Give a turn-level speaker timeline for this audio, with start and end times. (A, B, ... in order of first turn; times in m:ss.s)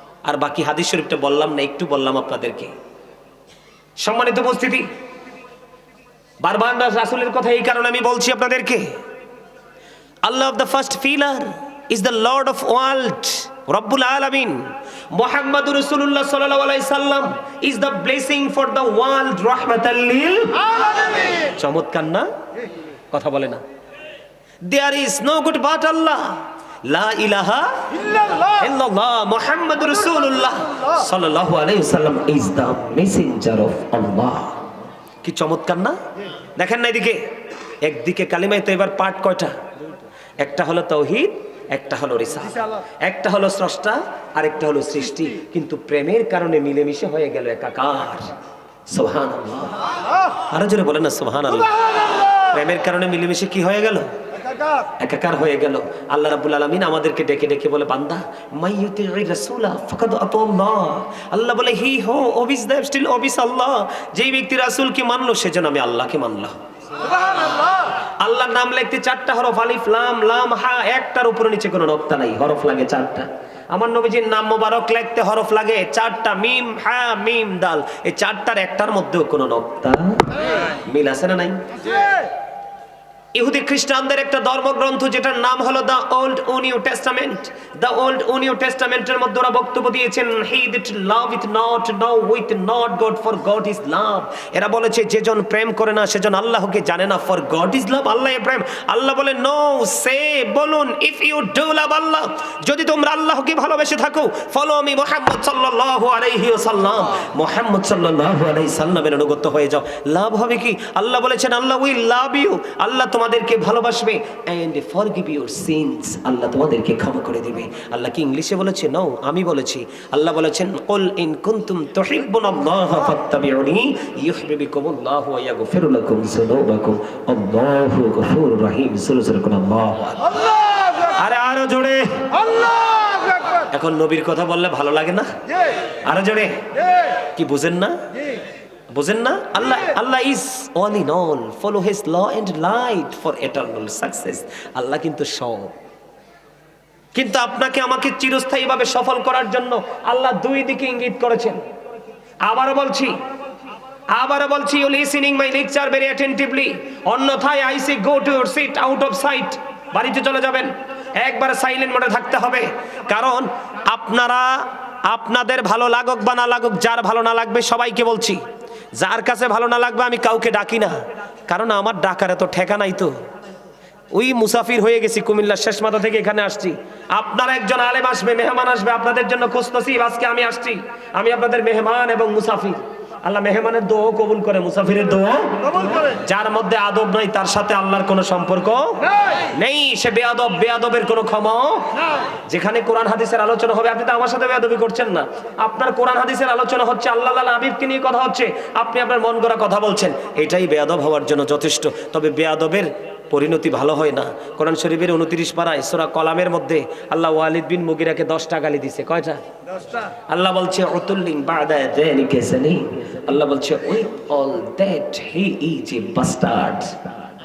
0:00.2-0:02.7 A
0:04.0-0:04.9 A
0:06.4-0:09.0 A
0:10.2-0:20.7 A
0:20.7-0:21.4 B
0:21.3-0:22.3 A
0:23.1-0:23.6 A
0:24.6-0:27.9 A
0:28.0-0:28.6 B
0:28.6-0:34.6 A
0:35.2-0:36.0 A
0:36.6-0:37.3 A
0:37.8-0:39.6 A
0:40.4-0:48.3 A
0:48.9-0:49.8 A
0:50.4-0:54.1 A
0:54.4-0:54.9 B
0:55.0-1:06.6 A
1:07.1-1:07.8 B
1:08.2-1:21.8 A
1:23.3-2:10.3 A
2:10.4-2:11.1 B
2:11.1-2:12.3 A
2:12.3-2:13.7 B
2:13.7-2:15.4 A
2:16.0-2:16.7 A
2:17.3-2:18.0 A
2:18.9-2:25.8 A
2:27.1-2:31.6 A
2:32.4-2:33.2 A
2:34.1-2:48.4 A
2:49.0-2:51.0 A
2:51.5-2:53.1 A
2:54.1-3:29.4 A
3:30.3-3:36.9 A